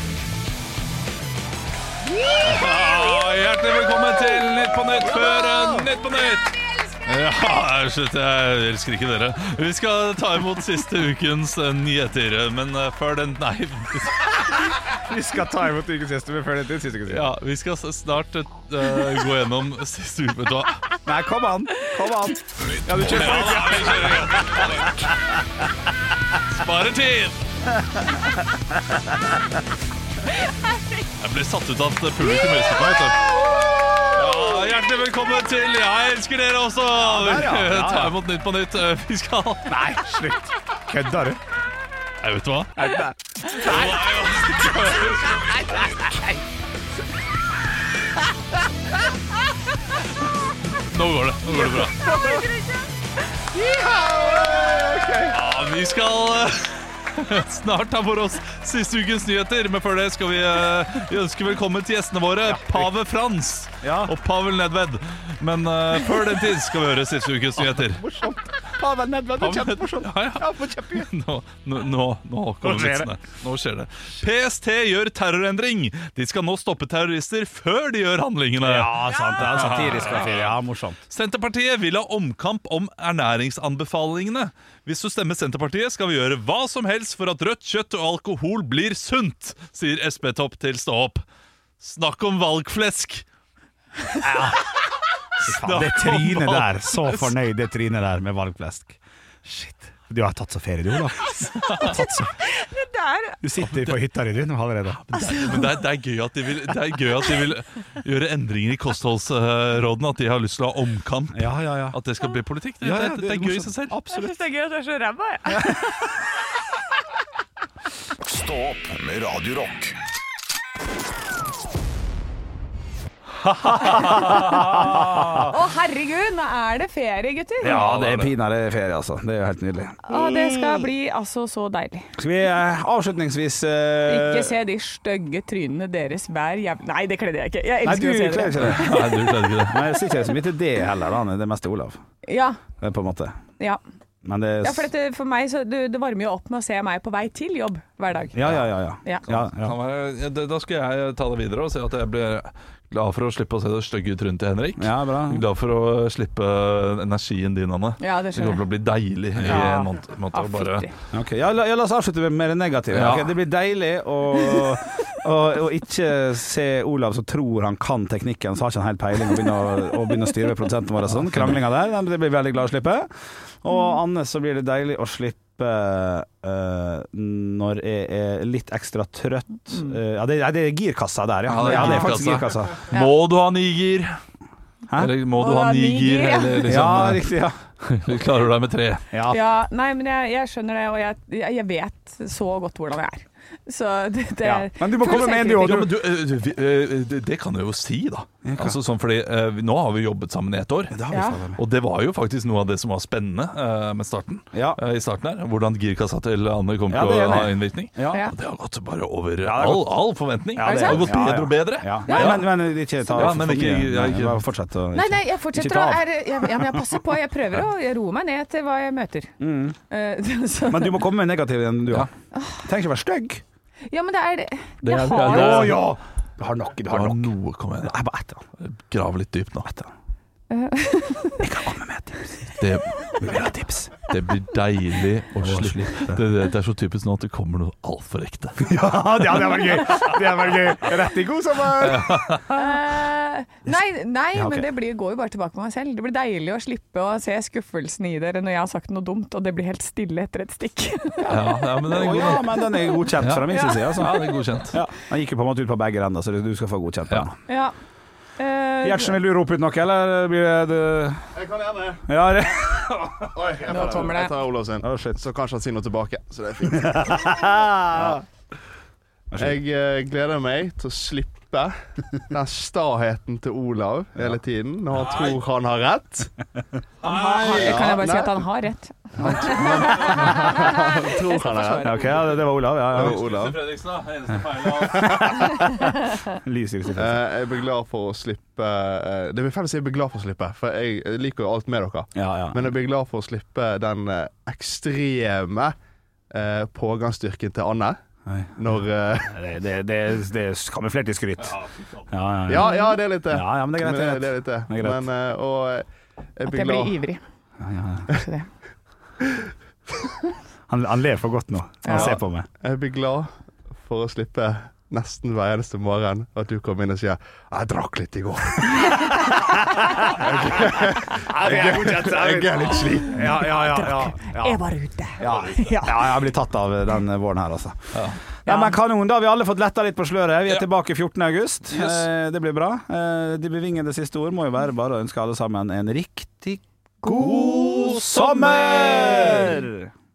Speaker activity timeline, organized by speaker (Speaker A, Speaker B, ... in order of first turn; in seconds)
Speaker A: 2.4-14.6, 17.1-20.9, 23.0-25.2, 26.5-27.4, 31.2-33.3, 34.1-40.0, 42.2-45.6, 50.7-52.2, 55.3-68.0, 69.4-80.5, 81.1-91.2, 91.8-93.2, 95.4-97.3, 101.6-102.0, 104.9-114.0, 123.4-125.4, 127.6-128.3, 138.6-139.8, 149.3-160.9, 162.9-163.3, 171.2-171.6, 181.5-184.2, 184.9-187.2, 187.8-189.1, 195.6-201.0, 201.6-212.6, 213.1-214.4, 224.8-225.9, 226.9-228.0, 228.6-229.7, 232.6-233.4, 234.1-238.6, 241.8-242.6, 251.2-254.8, 274.9-275.4, 277.0-278.0, 279.3-280.4, 282.9-285.6, 301.4-302.1, 327.9-328.2, 331.7-332.1, 337.1-339.6
Speaker B: 5.0-5.9, 14.9-17.3, 21.1-25.1, 33.4-34.2, 37.0-38.2, 39.7-41.4, 42.8-44.1, 44.9-46.3, 51.5-52.5, 53.5-55.4, 62.4-62.9, 63.8-64.1, 67.6-71.1, 72.6-73.1, 78.6-81.0, 94.2-94.8, 95.4-102.4, 103.4-105.0, 111.3-112.0, 112.8-114.3, 115.5-116.0, 123.8-125.4, 127.6-130.9, 132.2-134.6, 137.8-139.1, 139.7-142.0, 142.8-143.4, 144.2-144.9, 148.3-149.8, 154.8-155.4, 159.4-159.7, 161.1-173.1, 173.6-182.8, 184.9-185.1, 186.7-187.6, 189.1-189.4, 194.4-195.9, 198.4-198.8, 200.9-201.6, 204.5-204.8, 206.9-208.3, 209.4-210.0, 210.6-216.8, 219.4-219.8, 220.7-222.1, 222.6-223.4, 225.2-228.4, 229.7-229.9, 231.4-232.6, 233.2-234.0, 235.4-236.2, 238.6-242.4, 244.3-244.7, 251.2-257.4, 258.8-261.3, 262.1-263.9, 264.8-265.2, 266.6-268.2, 269.3-269.6, 279.2-280.5, 281.8-283.2, 284.9-287.2, 292.1-292.8, 298.3-298.5, 299.3-305.1, 307.6-308.1, 310.7-312.5, 319.3-324.6, 325.2-339.9
Speaker C: 22.5-23.9, 45.2-46.2, 118.2-120.0
Speaker D: 52.3-52.6, 101.5-103.4, 105.1-105.7, 114.1-116.2, 125.3-127.8, 130.1-132.2, 134.1-139.1, 142.3-142.6, 144.6-148.5, 158.0-158.6, 159.4-160.9, 181.7-182.0, 185.3-186.9, 189.3-195.8, 201.1-201.4, 208.1-208.3, 210.6-211.2, 212.1-212.4, 214.9-219.3, 219.9-221.1, 222.3-222.7, 223.9-225.7, 230.5-231.4, 242.5-251.3, 253.5-254.3, 257.5-257.8, 258.4-259.2, 263.7-264.4, 277.1-282.1, 302.6-302.9, 306.5-307.2, 308.1-308.5, 311.8-312.2, 323.1-326.3, 328.5-328.8
Speaker E: 261.4-262.0, 263.3-268.2, 269.4-276.3, 277.3-278.4, 279.2-282.2, 282.9-283.6, 287.0-295.8, 296.3-298.0, 298.6-299.4, 302.5-307.0, 311.9-323.4